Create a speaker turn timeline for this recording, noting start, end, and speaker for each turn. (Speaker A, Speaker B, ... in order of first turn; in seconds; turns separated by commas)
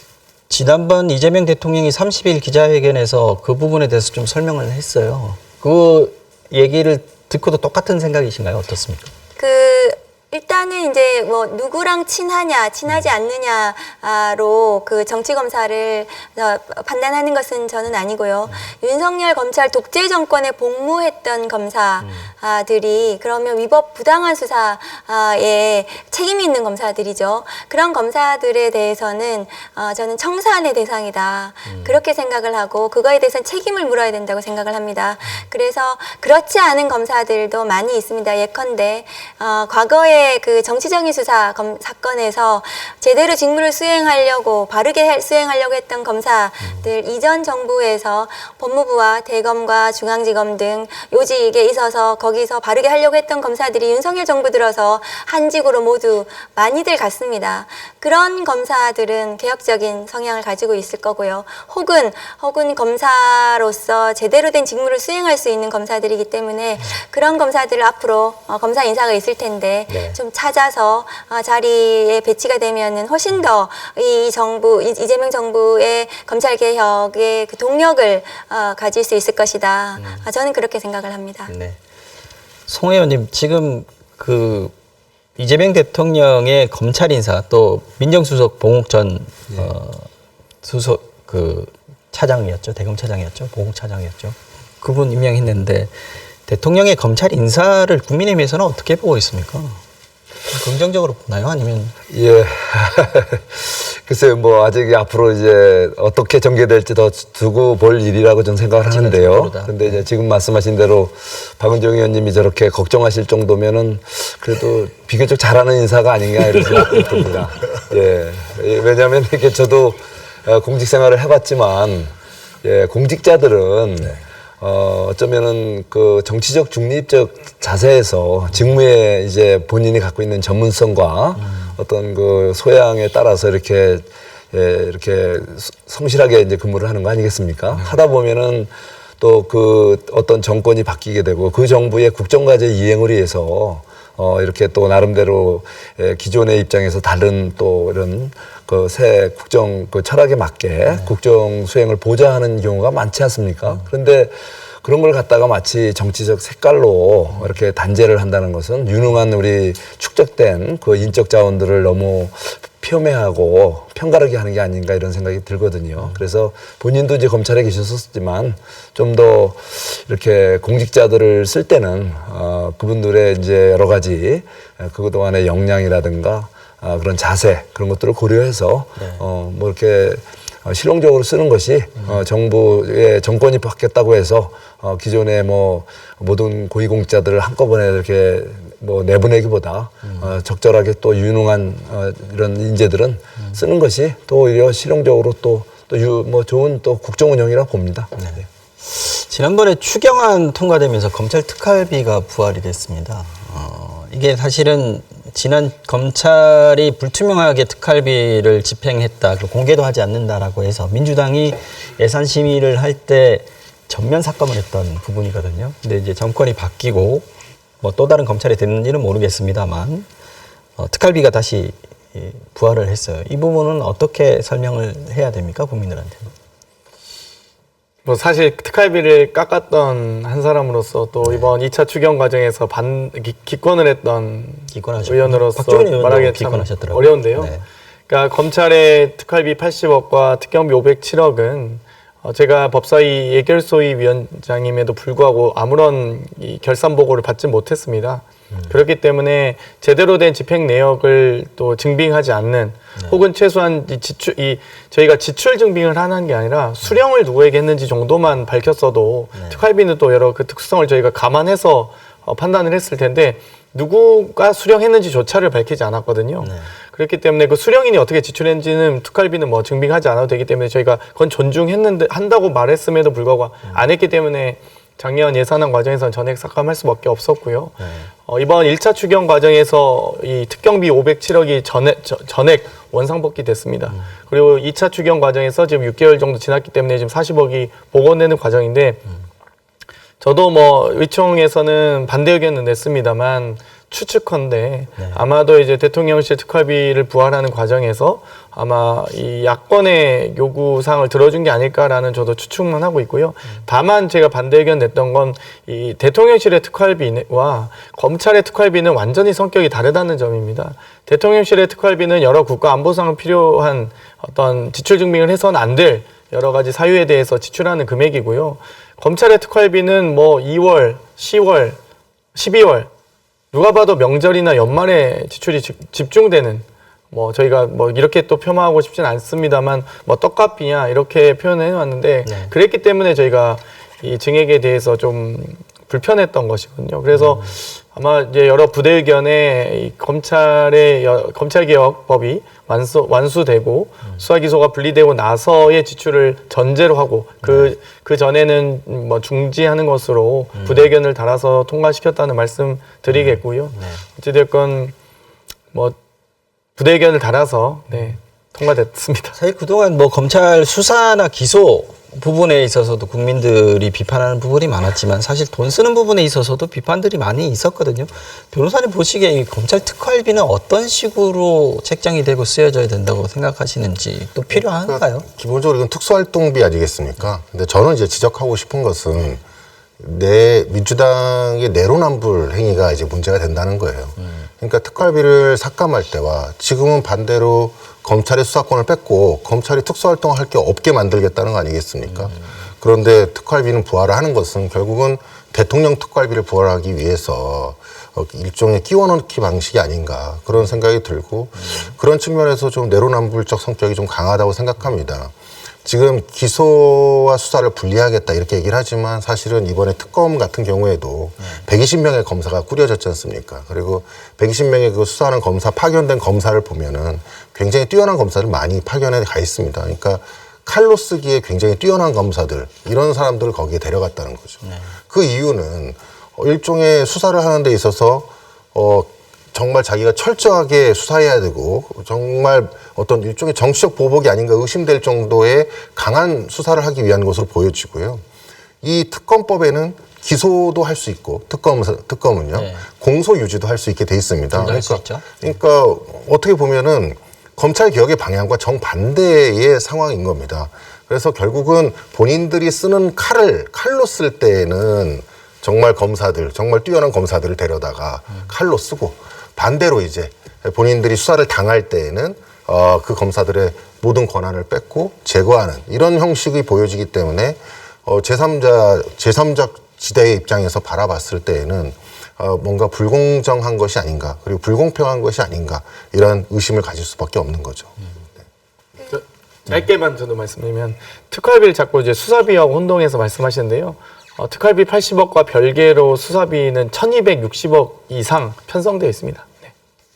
Speaker A: 0.5-9.1, Speaker B: 9.4-81.5, Speaker A: 22.0-22.3, Speaker A: 31.7-32.0, Speaker A: 46.6-46.9, Speaker A: 69.9-70.2, Speaker A: 80.0-80.3, Speaker A: 81.5-81.8, Speaker A: 82.7-84.7, Speaker A: 85.4-90.1, Speaker A: 90.6-95.9, Speaker A: 96.5-99.8, Speaker A: 100.5-101.9, Speaker C: 102.1-198.4, Speaker A: 108.8-110.1, Speaker A: 179.0-179.2, Speaker A: 190.0-190.4, Speaker A: 198.2-217.3, Speaker A: 217.8-220.1, Speaker A: 220.8-226.3, Speaker D: 228.1-237.5, Speaker A: 231.2-231.5, Speaker A: 234.7-237.7, Speaker D: 238.1-277.8, Speaker A: 253.0-253.2, Speaker A: 259.3-259.6, Speaker A: 266.4-266.7, Speaker A: 277.8-278.1, Speaker D: 278.3-289.0, Speaker D: 290.2-321.8, Speaker A: 295.0-295.2, Speaker D: 322.4-322.9, Speaker D: 323.5-354.9, Speaker A: 332.2-332.5, Speaker A: 337.1-337.6, Speaker A: 347.4-347.7, Speaker A: 350.6-350.9, Speaker A: 353.1-354.1, Speaker D: 356.8-359.4, Speaker A: 359.3-375.3, Speaker E: 374.5-379.4, Speaker E: 380.0-405.3, Speaker A: 392.1-392.5, Speaker A: 401.6-401.9, Speaker E: 405.9-438.2, Speaker A: 411.4-411.6, Speaker A: 424.6-424.9, Speaker E: 438.8-478.0, Speaker A: 442.5-442.9, Speaker A: 444.5-445.3, Speaker D: 479.0-489.7